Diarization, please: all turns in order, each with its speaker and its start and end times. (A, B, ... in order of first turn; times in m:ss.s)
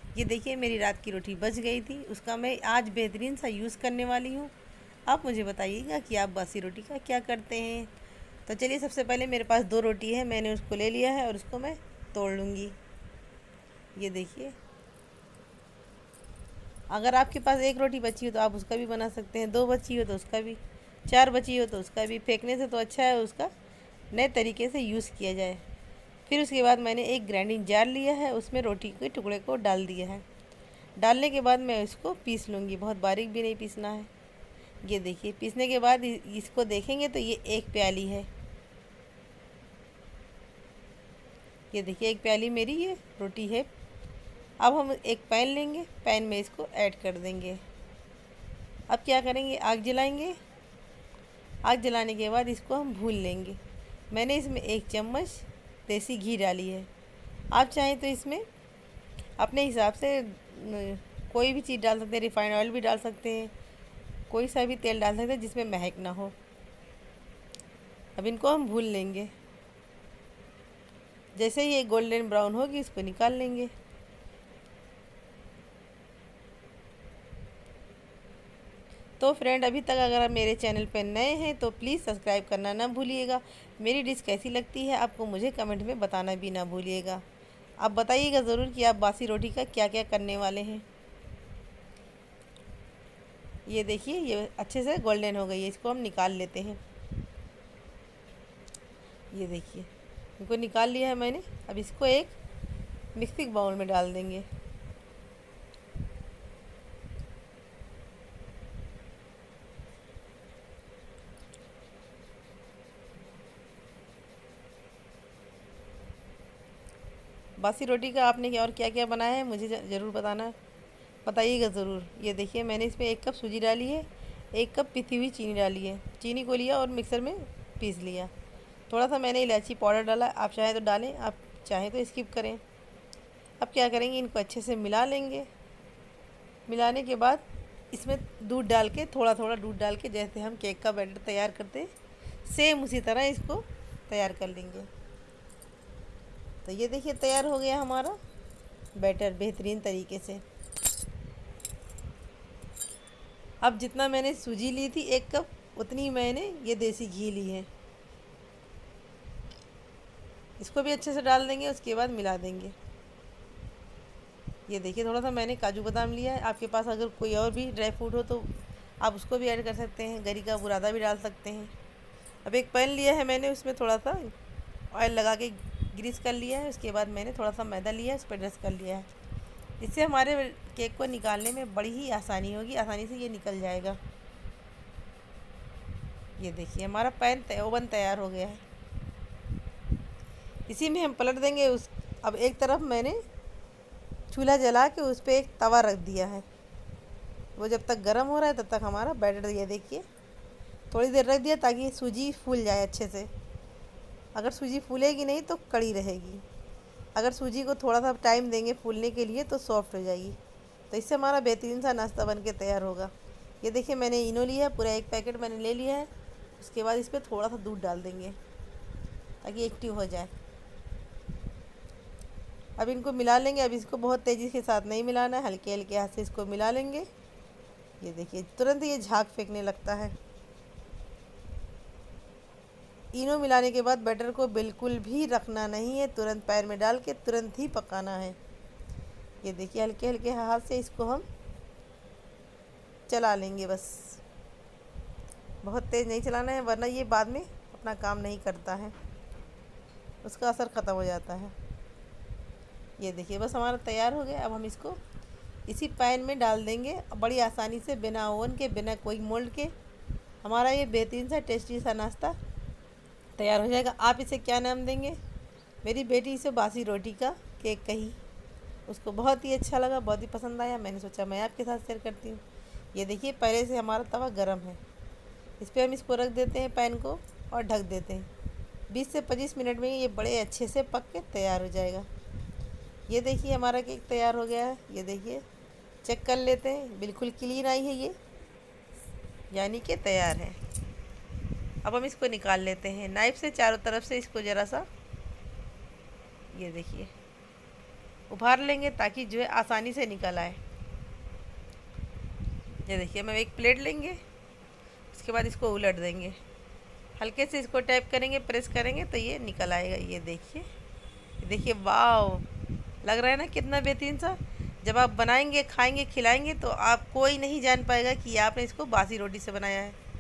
0:00.1-0:04.5 A
0:05.1-0:07.9 A
0:08.5-0:12.8 A
0:14.0-0:14.6 A
0:16.9-0:23.5 A
0:24.1-0:25.6 A
0:26.3-0:30.2 A
0:31.0-0:34.1 A
0:34.8-0:38.3 A
0:41.7-0:43.7 A
0:44.6-0:47.6 A
0:48.9-0:50.4 A
0:51.6-0:53.6 A
0:54.1-0:56.9 A
0:57.5-0:58.4 A
0:59.4-1:03.5 A
1:04.3-1:06.4 A
1:08.2-1:09.3 A
1:11.4-1:13.7 A
1:19.2-1:27.2 A
1:27.8-1:30.8 A
1:33.7-1:36.8 A
1:39.3-1:42.4 A
1:43.2-1:44.5 A
1:57.6-2:00.6 A
2:01.2-2:08.3 A
2:08.9-2:12.6 A
2:13.6-2:15.5 A
2:16.7-2:21.9 A
2:22.4-2:24.9 A
2:26.6-2:28.2 A
2:29.0-2:30.4 A
2:33.6-2:37.7 A
2:40.6-2:42.8 A
2:44.7-2:51.7 A
2:52.4-2:54.4 A
2:54.9-2:59.1 A
2:59.8-3:04.0 A
3:06.4-3:08.6 A
3:10.7-3:13.2 A
3:14.3-3:16.5 A
3:17.6-3:20.0 A
3:20.9-3:23.3 A
3:24.3-3:26.4 A
3:27.2-3:30.4 A
3:30.9-3:38.4 A
3:39.4-3:40.3 A
3:42.8-3:47.1 A
3:48.0-3:50.2 A
3:53.1-3:58.4 A
3:59.4-4:01.3 A
4:03.1-4:04.2 A
4:05.6-4:09.0 A
4:10.2-4:11.6 A
4:13.0-4:15.0 A
4:15.7-4:19.7 A
4:20.4-4:22.4 A
4:23.4-4:25.2 A
4:25.8-4:28.2 A
4:28.9-4:32.4 A
4:32.9-4:34.8 A
4:35.6-4:38.3 A
4:38.9-4:42.1 A
4:43.1-4:45.4 A
4:46.0-4:48.2 A
4:49.5-4:50.6 A
4:51.8-4:54.9 A
4:56.5-4:57.1 A
4:58.3-5:00.6 A
5:02.8-5:04.2 A
5:05.1-5:06.4 A
5:07.2-5:10.7 A
5:11.4-5:12.5 A
5:13.0-5:20.0 A